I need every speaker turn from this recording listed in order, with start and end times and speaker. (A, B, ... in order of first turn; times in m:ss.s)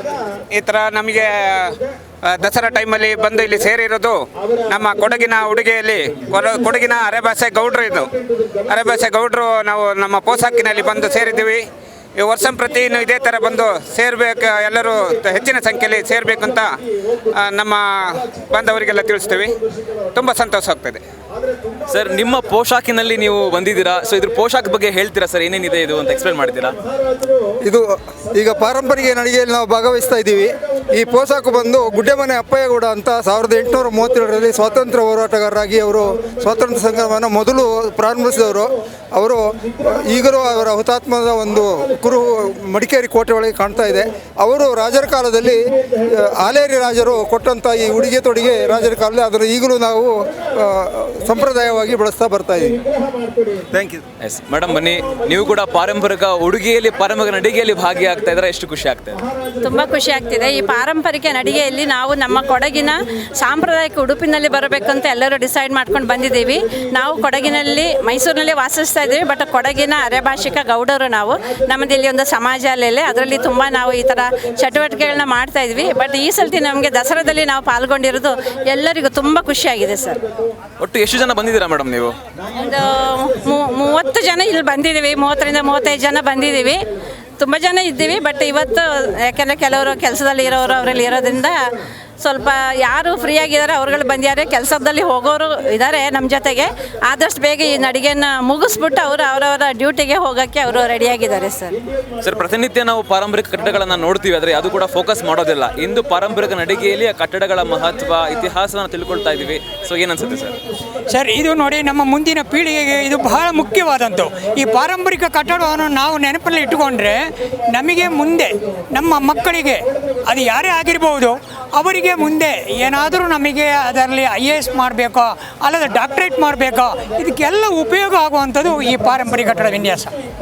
0:00.5-0:08.1 A
0:08.6-0:11.6 A
0:12.2-0:16.7 A
0:17.3-0:19.6 A
0:20.2-0:21.0 A
0:21.9-0:26.8 B
0:27.6-0:52.8 C
0:53.5-0:54.0 C
0:54.2-0:59.2 B
0:59.6-1:20.2 D
1:20.8-1:22.1 B
1:22.5-1:31.6 D
1:32.2-1:41.8 D
1:42.2-1:50.6 B
1:51.1-2:10.1 E